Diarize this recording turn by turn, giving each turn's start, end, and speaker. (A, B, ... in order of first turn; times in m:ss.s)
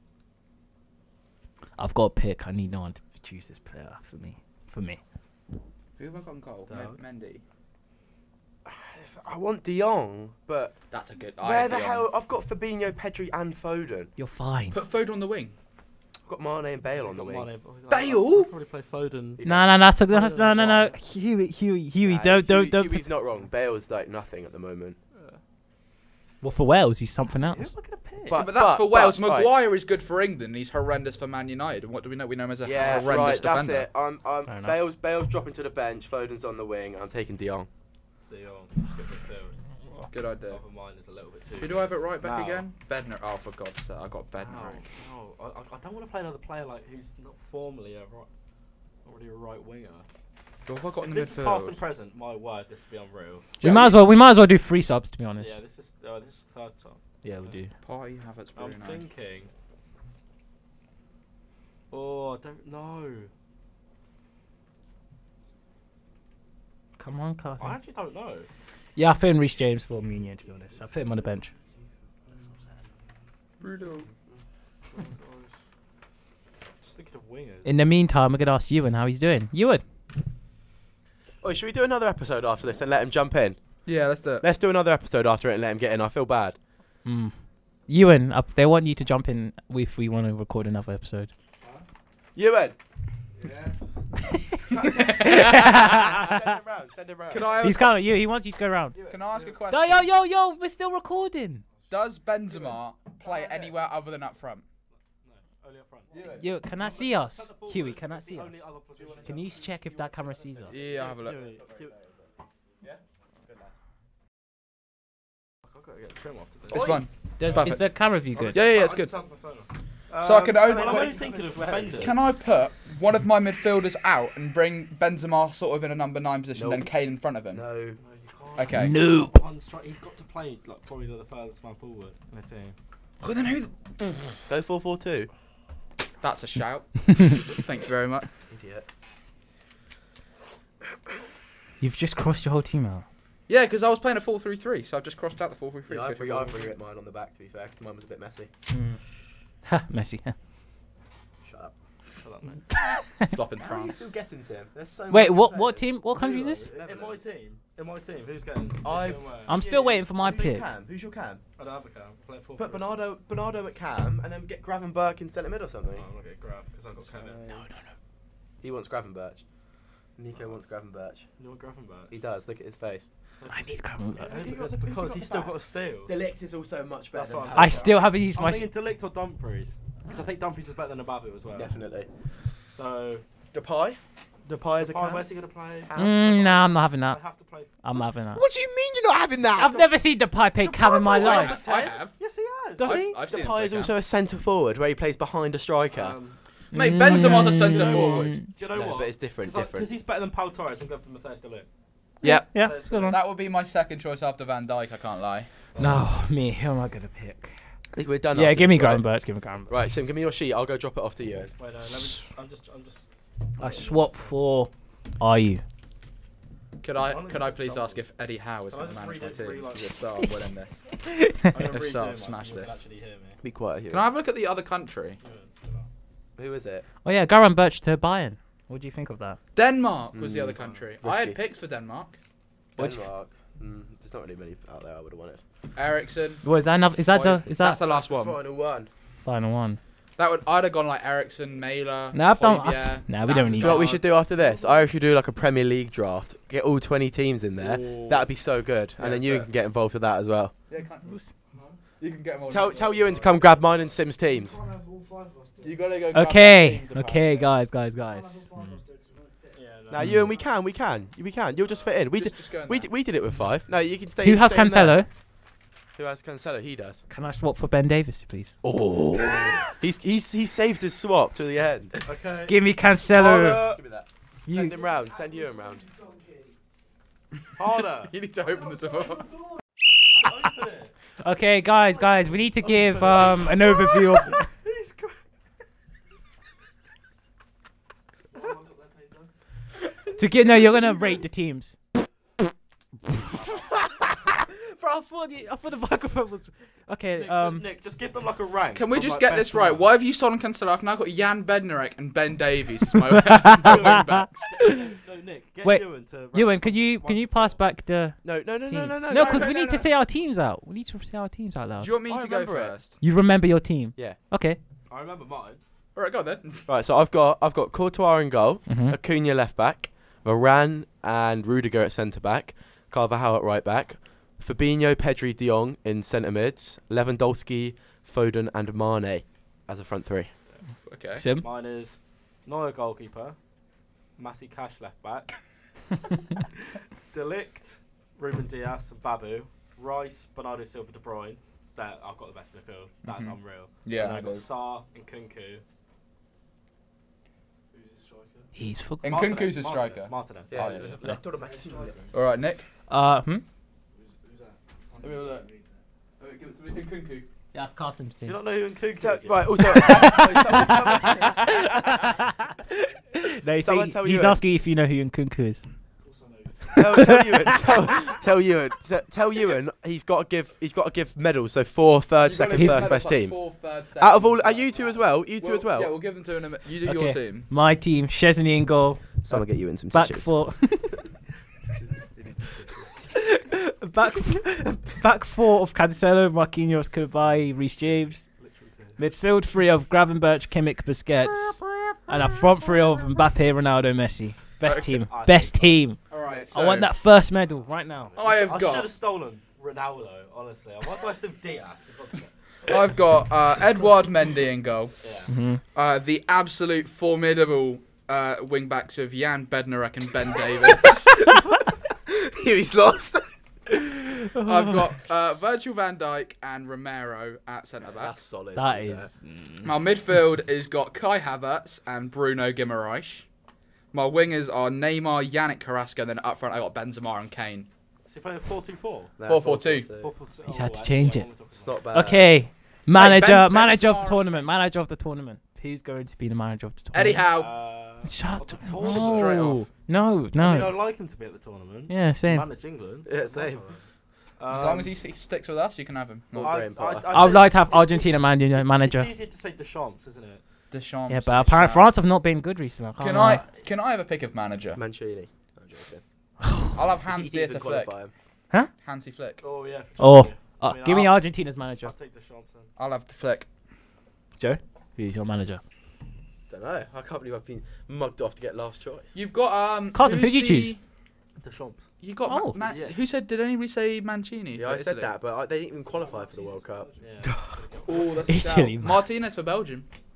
0:01.8-0:05.0 A
0:06.0-0:07.4 B
0:06.7-0:07.0 C
0:08.6-0:10.8 D
0:10.9-0:12.1 B
0:11.4-0:14.1 D
0:14.2-0:14.8 A
0:14.7-0:15.5 B
0:16.3-0:17.5 D
0:16.9-0:21.0 C
0:17.9-0:18.5 B
0:19.4-0:23.0 A
0:22.0-0:25.0 D
0:25.1-0:25.4 C
0:26.4-0:27.7 A
0:27.3-0:28.5 C
0:28.2-0:29.5 D
0:28.3-0:33.9 B
0:32.6-0:37.7 D
0:32.7-0:33.3 C
0:34.5-0:34.8 A
0:38.3-0:39.5 C
0:40.1-0:40.6 B
0:40.4-0:42.7 C
0:41.6-0:44.8 B
0:44.3-0:48.3 C
0:49.0-0:50.0 C
0:50.6-0:51.8 B
0:51.0-0:53.5 C
0:53.6-0:55.6 A
0:53.6-0:54.0 B
0:55.4-0:57.6 C
0:57.2-0:57.7 A
0:57.8-0:59.0 B
0:58.6-0:59.5 C
1:01.9-1:03.3 C
1:07.0-1:07.8 A
1:07.6-1:08.5 C
1:09.0-1:11.5 A
1:13.6-1:14.1 B
1:14.9-1:15.6 C
1:16.8-1:17.7 C
1:17.6-1:19.8 A
1:21.4-1:23.6 D
1:23.8-1:24.4 B
1:24.4-1:26.6 D
1:27.0-1:27.3 A
1:27.9-1:31.3 A
1:31.6-1:31.8 E
1:32.3-1:32.8 D
1:33.4-1:33.8 E
1:34.3-1:36.6 A
1:35.0-1:37.7 D
1:37.3-1:38.0 B
1:37.6-1:39.0 A
1:39.1-1:40.1 B
1:39.7-1:41.6 A
1:41.9-1:44.6 B
1:42.5-1:43.7 E
1:45.2-1:49.7 C
1:46.1-1:46.5 E
1:46.1-1:46.4 D
1:46.4-1:48.6 A
1:49.0-1:52.3 E
1:49.2-1:50.7 A
1:50.7-1:51.5 B
1:50.7-1:51.6 D
1:50.8-1:51.9 C
1:52.8-1:53.7 D
1:55.7-1:56.9 C
1:56.7-1:57.8 B
1:56.7-1:57.0 D
1:57.4-1:58.6 A
1:58.3-2:02.1 C
1:58.5-1:59.1 B
2:00.2-2:01.3 B
2:00.5-2:02.2 D
2:01.9-2:07.6 B
2:06.5-2:06.9 D
2:07.5-2:08.0 D
2:08.0-2:12.7 C
2:08.6-2:09.0 B
2:08.7-2:09.4 A
2:13.2-2:13.7 B
2:14.5-2:15.3 D
2:16.2-2:18.3 B
2:18.5-2:18.8 D
2:21.8-2:23.0 A
2:23.5-2:26.7 B
2:25.9-2:28.5 D
2:28.7-2:29.0 A
2:29.6-2:30.4 A
2:31.4-2:31.7 D
2:32.2-2:32.6 C
2:32.7-2:33.4 A
2:33.3-2:34.1 B
2:33.6-2:35.9 D
2:35.1-2:36.7 A
2:36.1-2:39.6 C
2:36.7-2:37.3 D
2:38.8-2:41.4 D
2:39.5-2:40.6 A
2:41.6-2:43.0 C
2:42.6-2:46.1 D
2:45.9-2:47.4 C
2:47.2-2:47.9 A
2:48.6-2:49.4 D
2:50.2-2:51.3 D
2:51.4-2:52.2 C
2:52.1-2:53.1 D
2:53.4-2:56.1 C
2:53.5-2:54.4 A
2:54.2-2:58.1 D
2:57.1-3:01.8 C
2:57.5-2:58.7 A
3:01.5-3:02.1 D
3:02.7-3:03.2 C
3:03.5-3:05.3 D
3:04.8-3:06.2 C
3:05.8-3:06.7 D
3:06.0-3:07.2 A
3:07.0-3:07.8 C
3:07.8-3:08.4 A
3:08.3-3:09.9 D
3:09.6-3:11.6 A
3:10.6-3:11.4 D
3:11.1-3:13.0 C
3:11.1-3:12.2 B
3:12.8-3:13.2 A
3:12.8-3:13.9 B
3:12.8-3:16.2 D
3:15.9-3:16.4 C
3:16.7-3:18.4 B
3:16.7-3:18.5 A
3:17.1-3:21.7 C
3:18.7-3:19.9 D
3:22.2-3:23.2 A
3:22.2-3:25.5 B
3:22.5-3:23.2 C
3:25.7-3:26.0 C
3:25.8-3:27.5 A
3:27.9-3:29.0 D
3:28.3-3:29.8 A
3:29.7-3:31.5 D
3:31.5-3:34.4 C
3:33.6-3:35.6 A
3:36.8-3:40.9 B
3:37.0-3:38.0 C
3:38.7-3:40.0 C
3:40.2-3:41.7 A
3:41.5-3:43.4 C
3:41.7-3:42.8 B
3:43.4-3:44.1 D
3:43.9-3:45.2 B
3:45.2-3:45.9 C
3:46.4-3:46.8 D
3:47.0-3:49.4 A
3:49.5-3:52.2 B
3:50.1-3:51.4 D
3:50.5-3:50.8 C
3:52.8-3:55.4 D
3:52.8-3:53.1 A
3:55.7-3:56.4 B
3:56.4-3:57.8 A
3:57.1-3:58.4 B
3:57.9-3:58.9 D
3:59.2-3:59.8 A
4:00.2-4:04.5 B
4:02.1-4:03.9 A
4:03.5-4:10.5 D
4:04.1-4:04.5 C
4:07.6-4:08.3 B
4:09.0-4:09.5 B
4:10.7-4:11.2 B
4:11.0-4:11.3 A
4:11.5-4:11.9 E
4:12.0-4:13.5 B
4:12.5-4:14.6 D
4:13.9-4:15.9 E
4:15.6-4:17.5 B
4:16.1-4:18.8 A
4:18.0-4:20.4 E
4:19.5-4:20.1 C
4:19.9-4:25.0 D
4:20.0-4:20.3 A
4:21.8-4:22.9 B
4:24.2-4:25.1 A
4:26.0-4:27.0 D
4:27.1-4:28.5 A
4:28.6-4:32.0 D
4:32.0-4:32.6 C
4:32.5-4:33.8 A
4:33.1-4:35.9 D
4:34.5-4:34.8 A
4:34.6-4:36.6 E
4:37.6-4:38.1 C
4:38.1-4:39.3 B
4:38.9-4:39.2 E
4:40.1-4:40.9 C
4:41.2-4:44.5 A
4:42.6-4:45.2 C
4:48.3-4:49.3 C
4:50.2-4:51.8 A
4:54.6-4:57.6 A
4:57.2-4:59.9 C
4:58.7-5:04.5 B
5:03.2-5:04.7 A
5:04.4-5:07.6 C
5:05.6-5:11.9 A
5:08.2-5:09.6 D
5:09.1-5:09.9 B
5:11.8-5:13.0 B
5:12.1-5:12.8 D
5:13.0-5:14.6 A
5:14.9-5:15.6 C
5:15.9-5:16.7 B
5:16.7-5:30.3 D
5:18.7-5:19.0 A
5:30.8-5:31.2 B
5:31.2-5:31.5 A
5:31.4-5:33.4 C
5:34.2-5:35.3 C
5:37.1-5:45.6 C
5:43.0-5:44.4 B
5:47.7-5:48.5 E
5:48.5-5:49.2 A
5:49.0-5:51.2 B
5:49.0-5:50.8 C
5:50.5-5:52.0 D
5:51.3-5:52.5 E
5:52.1-5:52.6 B
5:52.9-5:53.4 A
5:53.9-5:55.8 E
5:55.0-5:55.4 B
5:56.2-5:57.3 B
5:57.5-5:58.4 A
5:58.2-6:01.3 C
5:59.0-6:01.4 D
5:59.6-6:05.6 A
6:03.6-6:04.4 D
6:06.0-6:07.6 E
6:06.7-6:07.7 A
6:06.8-6:13.4 D
6:12.1-6:17.5 B
6:12.5-6:13.0 A
6:14.0-6:15.9 D
6:16.8-6:19.3 A
6:19.2-6:20.3 D
6:19.9-6:21.0 A
6:21.7-6:22.9 C
6:23.1-6:28.2 A
6:28.2-6:29.0 C
6:29.0-6:36.0 A
6:34.6-6:34.9 B
6:35.1-6:36.7 C
6:36.1-6:36.9 B
6:36.5-6:38.2 A
6:38.2-6:42.8 C
6:38.2-6:38.9 B
6:42.6-6:44.9 B
6:45.0-6:45.3 C
6:45.3-6:45.6 A
6:45.7-6:51.3 B
6:51.0-6:51.4 D
6:52.0-6:53.2 D
6:54.3-6:54.8 A
6:54.3-6:58.2 B
6:58.0-6:59.1 D
6:58.5-6:59.7 A
6:59.6-7:03.2 B
7:03.9-7:07.7 B
7:08.0-7:09.1 C
7:09.2-7:10.1 D
7:09.2-7:09.9 B
7:10.0-7:11.8 C
7:10.5-7:11.3 A
7:11.6-7:12.4 D
7:11.9-7:17.3 A
7:12.9-7:14.3 B
7:16.9-7:17.5 B
7:17.3-7:19.5 C
7:18.0-7:20.8 A
7:18.8-7:19.6 B
7:20.4-7:23.8 C
7:21.9-7:22.5 A
7:23.0-7:23.6 D
7:24.4-7:25.0 C
7:24.5-7:26.6 B
7:26.3-7:27.3 D
7:26.4-7:30.4 C
7:27.1-7:29.1 A
7:30.7-7:31.9 B
7:31.1-7:33.4 A
7:33.0-7:34.8 B
7:34.7-7:36.0 D
7:36.4-7:36.8 A
7:36.7-7:37.9 B
7:37.1-7:38.1 D
7:38.8-7:39.4 B
7:39.4-7:41.2 C
7:40.0-7:41.9 A
7:41.8-7:42.7 C
7:42.8-7:43.5 B
7:44.4-7:45.6 A
7:46.5-7:49.2 D
7:49.1-7:50.8 B
7:49.9-7:50.8 A
7:51.4-7:51.9 C
7:52.0-7:55.1 B
7:52.3-7:52.6 A
7:52.6-7:53.0 C
7:54.5-7:57.6 D
7:55.8-7:57.3 E
7:57.0-7:58.3 C
7:57.8-7:59.9 B
7:58.2-7:59.0 A